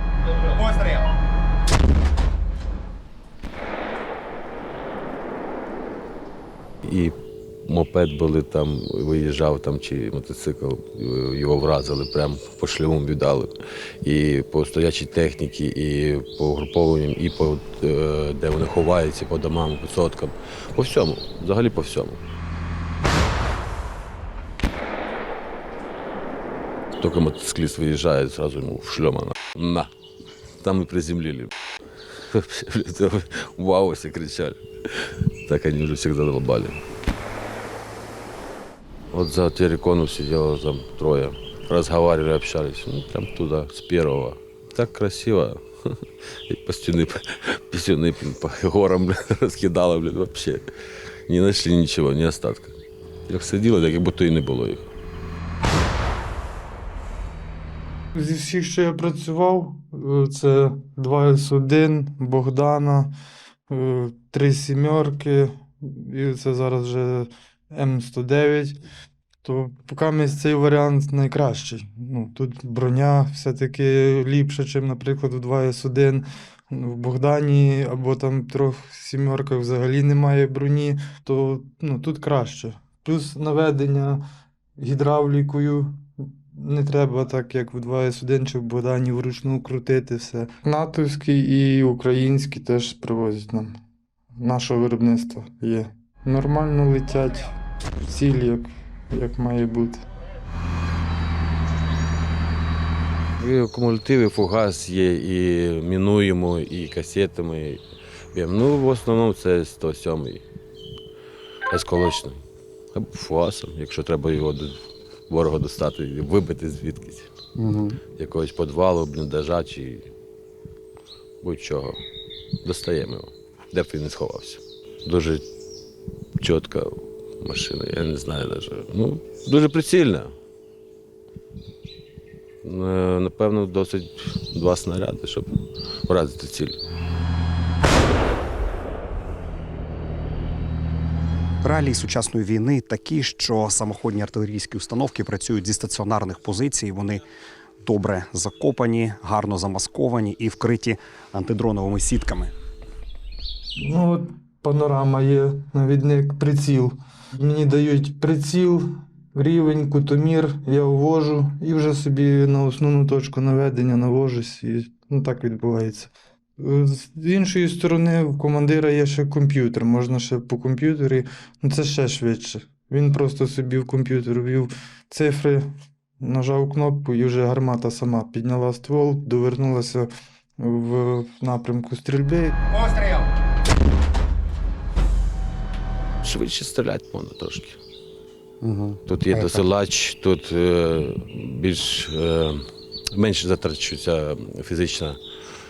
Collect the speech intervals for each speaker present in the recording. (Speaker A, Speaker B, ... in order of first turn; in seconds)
Speaker A: 6.8-7.1, 7.7-13.5, 14.0-22.2, 27.0-29.9, 30.6-31.5, 32.3-36.8, 39.1-50.6, 51.3-52.7, 53.3-54.9, 103.4-107.8, 108.3-110.4, 111.7-112.4, 112.9-114.8, 115.3-117.3, 118.2-120.0, 121.4-122.0, 122.6-125.4, 126.4-130.3, 132.6-135.5, 136.1-136.8, 186.2-187.8, 189.1-195.2
Speaker B: 58.1-63.1, 63.7-68.8, 69.4-84.2, 84.8-93.7, 94.4-100.0, 153.8-175.7, 176.2-182.7
Speaker C: 117.6-118.0, 141.6-147.2, 147.8-152.5, 188.6-189.6